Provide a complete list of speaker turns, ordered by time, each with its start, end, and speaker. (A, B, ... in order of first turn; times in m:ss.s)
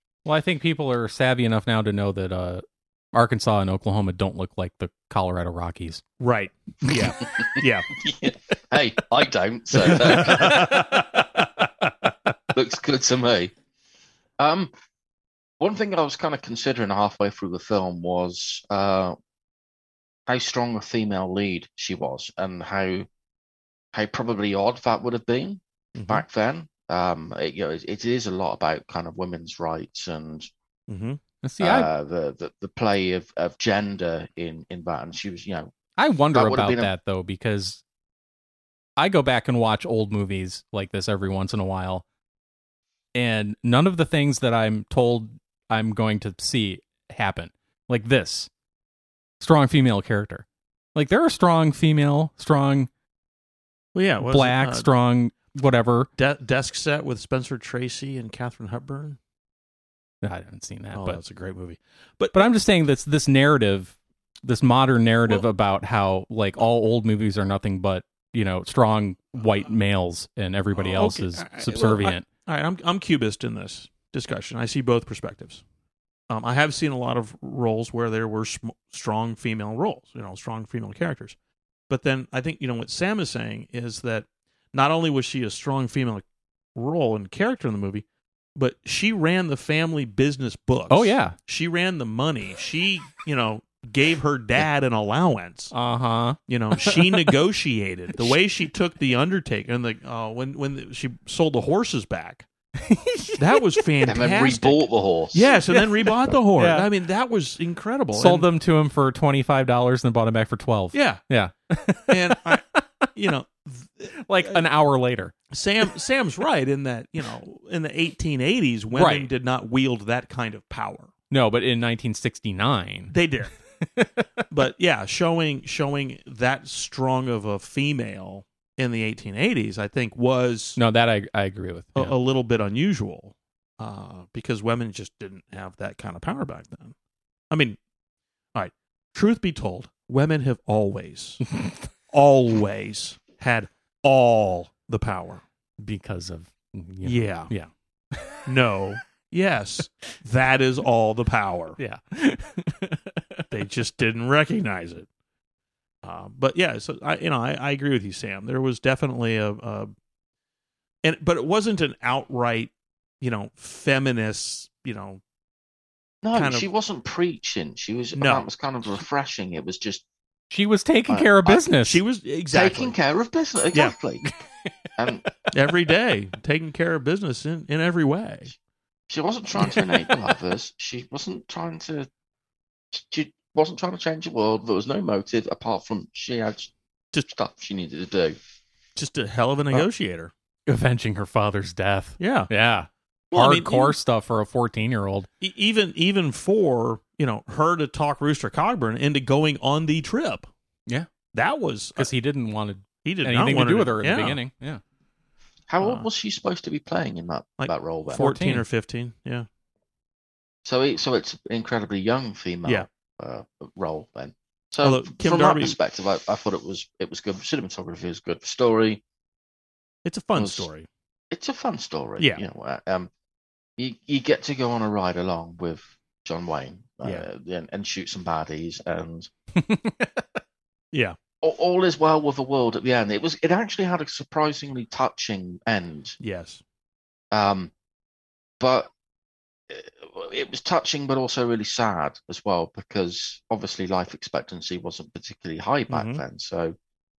0:00.2-0:06.0 A
0:06.2-0:07.9 B
0:08.0-0:11.0 C
0:09.8-0:11.6 B
0:12.5-0:13.5 C
0:14.4-0:14.7 C
0:15.6-0:19.2 C
0:20.3-0:23.1 C
0:23.9-0:30.5 C
0:26.0-0:26.2 B
0:30.9-0:31.2 B
0:31.4-0:31.9 A
0:31.6-0:35.7 C
0:36.0-0:37.8 A
0:36.3-0:36.9 C
0:39.0-0:42.0 A
0:43.2-0:48.5 A
0:49.4-0:52.9 A
0:54.0-0:54.9 B
0:54.2-0:56.1 A
0:56.2-0:59.2 B
1:00.2-1:01.2 A
1:00.9-1:02.4 B
1:02.3-1:12.2 A
1:10.8-1:15.6 B
1:16.3-1:21.4 B
1:21.9-1:26.2 B
1:26.8-1:28.0 B
1:28.6-1:35.8 B
1:30.9-1:31.4 A
1:35.7-1:37.3 A
1:36.5-1:42.5 B
1:42.8-1:43.8 A
1:43.4-1:48.5 B
1:44.0-1:45.5 C
1:45.7-1:46.9 A
1:48.1-1:52.8 A
1:50.9-1:51.2 B
1:52.1-1:54.6 B
1:54.2-1:55.4 A
1:55.5-2:01.1 B
1:58.9-1:59.3 A
2:01.3-2:03.1 A
2:03.1-2:03.6 B
2:03.8-2:04.3 A
2:04.5-2:10.8 B
2:10.8-2:12.2 A
2:12.0-2:17.0 B
2:17.5-2:17.8 B
2:18.6-2:21.5 B
2:22.1-2:25.4 B
2:25.8-2:28.4 A
2:27.0-2:27.5 B
2:28.4-2:31.8 B
2:31.8-2:33.5 A
2:33.5-2:35.1 B
2:36.0-2:39.9 B
2:41.0-2:45.2 B
2:46.2-2:50.0 C
2:46.4-2:46.7 B
2:48.2-2:48.5 B
2:50.5-2:52.0 A
2:51.1-2:51.6 C
2:51.6-2:53.0 B
2:52.5-2:54.3 C
2:55.0-2:55.2 C
2:55.5-2:58.5 B
2:59.1-3:02.1 C
3:02.9-3:08.4 C
3:09.0-3:10.3 B
3:10.7-3:15.3 A
3:12.2-3:12.5 B
3:13.3-3:14.0 B
3:15.4-3:20.5 B
3:21.3-3:22.1 B
3:22.0-3:24.8 A
3:23.0-3:24.4 B
3:25.7-3:28.2 C
3:25.8-3:26.1 B
3:27.6-3:29.5 B
3:28.1-3:28.6 A
3:30.6-3:39.0 C
3:34.8-3:35.8 B
3:40.0-3:40.9 B
3:40.4-3:40.7 C
3:41.3-3:43.1 C
3:43.8-3:49.3 C
3:49.6-3:50.2 A
3:50.9-3:51.2 B
3:51.4-3:56.2 C
3:56.2-3:56.6 B
3:57.3-3:57.7 C
3:58.6-3:58.9 C
3:59.7-4:06.8 C
4:05.9-4:06.2 B